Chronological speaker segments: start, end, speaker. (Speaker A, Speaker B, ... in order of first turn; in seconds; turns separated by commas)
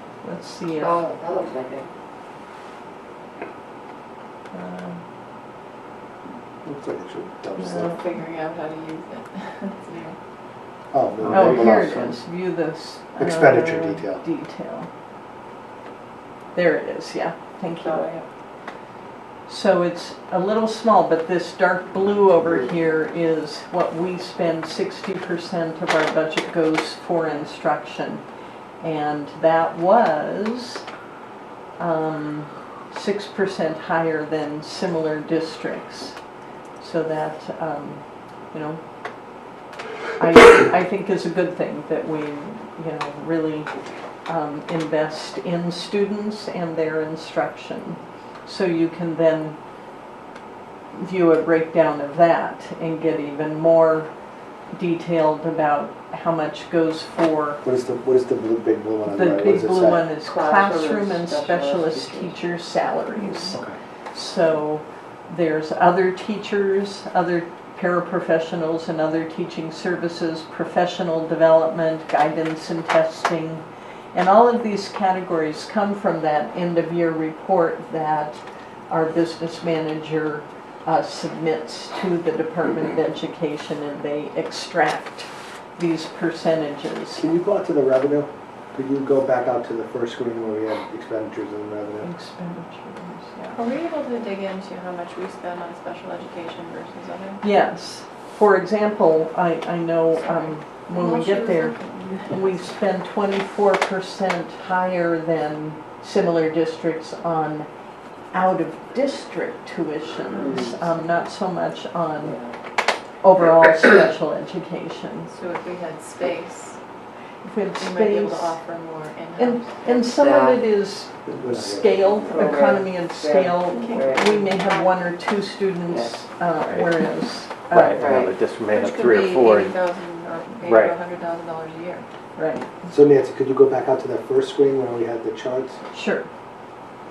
Speaker A: 0.2-1.0, Speaker B: 0.8-1.9, Speaker A: 4.5-5.0, Speaker C: 6.6-8.0, Speaker A: 7.5-8.0, Speaker D: 7.9-10.2, Speaker C: 10.9-12.1, Speaker E: 11.2-12.2, Speaker A: 11.3-14.9, Speaker C: 13.2-14.2, Speaker A: 16.5-18.1, Speaker D: 17.8-18.2, Speaker A: 19.5-28.2, Speaker A: 28.8-30.8, Speaker A: 31.8-36.2, Speaker A: 36.8-38.8, Speaker A: 40.2-43.7, Speaker A: 44.3-49.6, Speaker A: 50.9-54.1, Speaker A: 54.7-57.6, Speaker C: 57.6-60.0, Speaker A: 59.0-87.2, Speaker B: 60.2-62.4, Speaker C: 87.2-92.1, Speaker A: 92.0-93.6, Speaker D: 93.5-97.4, Speaker A: 97.4-107.7, Speaker D: 100.2-102.6, Speaker A: 108.3-112.4, Speaker B: 110.4-110.8, Speaker B: 112.2-112.5, Speaker A: 113.2-115.3, Speaker D: 115.3-116.8, Speaker A: 117.4-118.6, Speaker D: 117.8-120.0, Speaker A: 119.4-128.1, Speaker B: 120.1-120.6, Speaker C: 121.2-122.5, Speaker B: 122.2-124.3, Speaker D: 123.7-124.9, Speaker B: 125.9-126.2, Speaker E: 126.5-126.9, Speaker E: 127.7-129.8, Speaker B: 128.0-128.3, Speaker D: 128.7-132.1, Speaker E: 130.6-130.9, Speaker A: 132.3-132.7, Speaker C: 132.9-135.8, Speaker A: 135.9-136.3